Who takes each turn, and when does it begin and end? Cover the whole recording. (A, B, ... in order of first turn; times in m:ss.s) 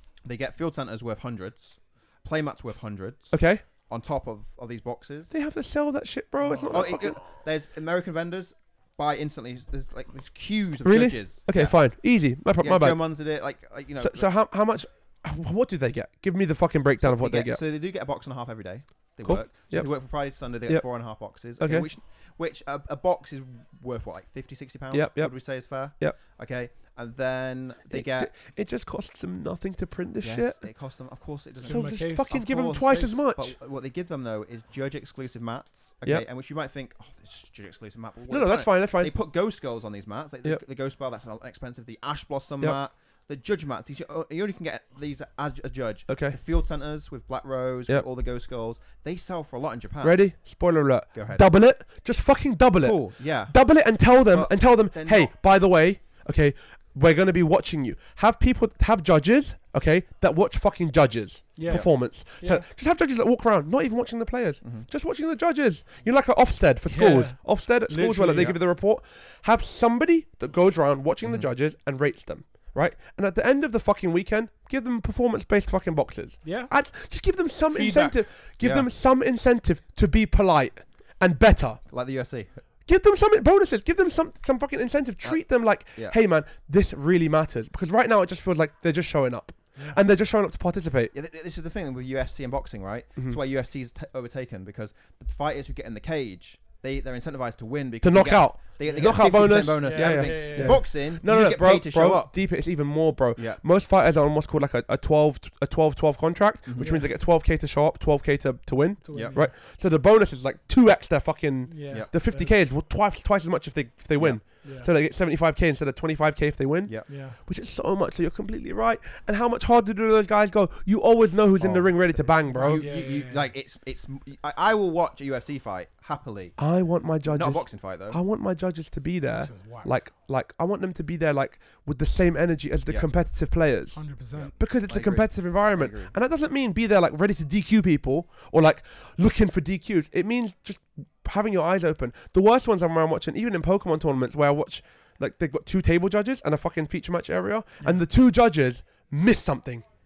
0:00.2-0:05.3 A
0:03.3-0:03.6 B
0:05.3-0:07.2 B
0:06.4-0:06.8 C
0:06.7-0:11.8 A
0:10.8-0:13.0 B
0:12.6-0:14.3 A
0:14.0-0:17.6 B
0:17.0-0:28.3 A
0:19.2-0:19.9 B
0:21.6-0:21.9 B
0:24.9-0:26.2 B
0:27.9-0:30.6 B
0:30.2-0:50.2 A
0:31.6-0:33.1 C
0:31.6-0:33.5 B
0:38.3-0:39.1 B
0:46.1-0:46.4 B
0:50.0-1:21.8 B
0:51.1-0:51.4 A
0:52.8-0:55.3 A
1:01.6-1:02.6 C
1:04.6-1:04.9 A
1:06.9-1:08.6 C
1:11.2-1:11.5 A
1:16.4-1:16.7 C
1:17.7-1:18.2 C
1:18.6-1:18.9 A
1:21.9-1:22.6 A
1:22.8-1:31.1 B
1:31.1-1:42.3 A
1:38.0-2:02.9 B
1:38.8-1:40.9 C
1:43.4-1:43.6 A
1:46.6-1:47.1 A
1:46.8-1:47.1 C
1:49.0-1:49.5 C
1:49.1-1:49.4 A
1:51.7-1:52.6 C
1:54.2-1:54.4 A
1:54.6-1:54.9 C
1:57.1-1:57.4 C
2:01.6-2:06.6 A
2:02.5-2:03.5 C
2:06.6-2:14.0 B
2:07.2-2:08.2 A
2:09.4-2:09.9 C
2:13.9-2:14.5 C
2:14.3-2:16.1 A
2:14.6-2:29.8 B